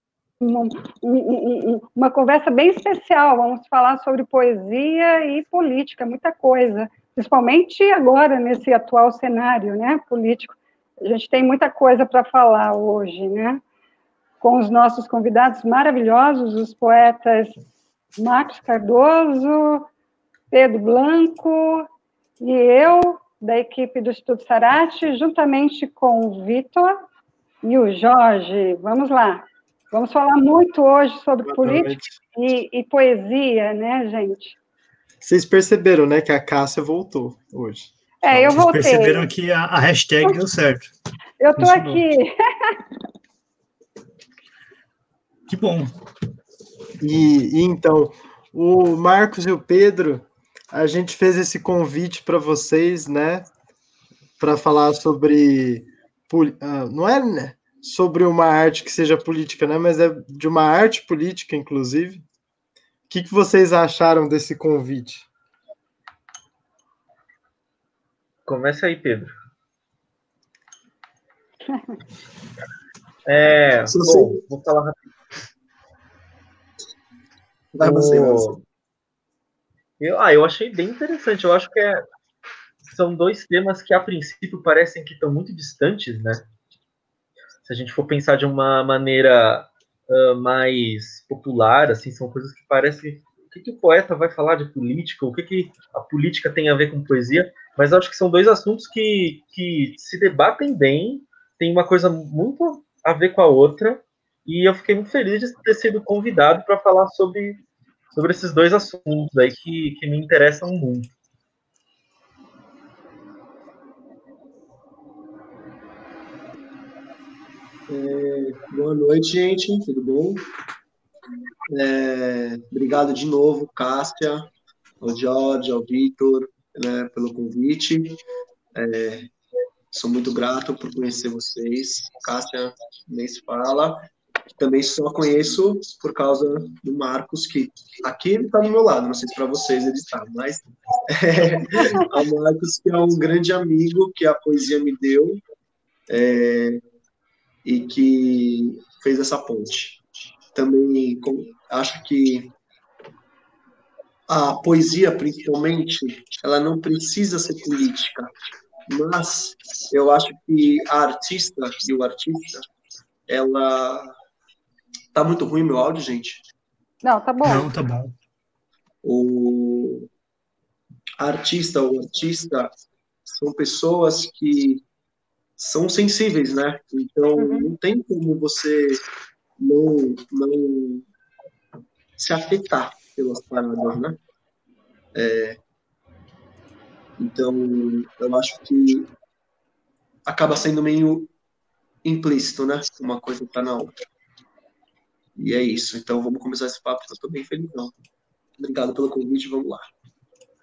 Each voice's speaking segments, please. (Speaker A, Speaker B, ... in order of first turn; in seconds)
Speaker A: 0.4-13.6, 14.4-17.5, 18.2-19.9, 20.5-21.9, 22.4-27.0, 27.6-34.6, 38.2-39.3, 41.4-42.8, 71.7-72.0, 141.8-142.1, 167.0-167.7, 177.4-177.7
Speaker B: 31.5-32.0, 35.2-37.9, 47.0-53.5, 54.4-62.2, 63.1-65.3
Speaker C: 38.3-40.9, 41.6-42.0, 45.5-45.9, 167.4-168.2
Speaker D: 68.5-69.3, 73.3-75.0, 77.8-78.6, 80.0-82.0, 82.9-86.5, 87.7-107.6, 108.2-111.1
Speaker E: 73.9-74.4, 77.8-78.6, 117.9-120.5, 121.7-124.5, 125.0-128.2, 128.8-129.3, 129.9-145.4, 146.1-146.8, 147.7-150.0, 150.5-152.5, 154.3-158.3, 158.9-162.7, 163.3-164.1, 165.1-166.4, 169.0-170.1, 171.2-172.7, 173.3-174.8, 175.6-179.0, 179.6-181.1, 182.2-184.2, 185.1-185.6, 187.2-189.1, 190.3-191.3, 192.0-194.0, 195.4-197.9, 198.6-199.9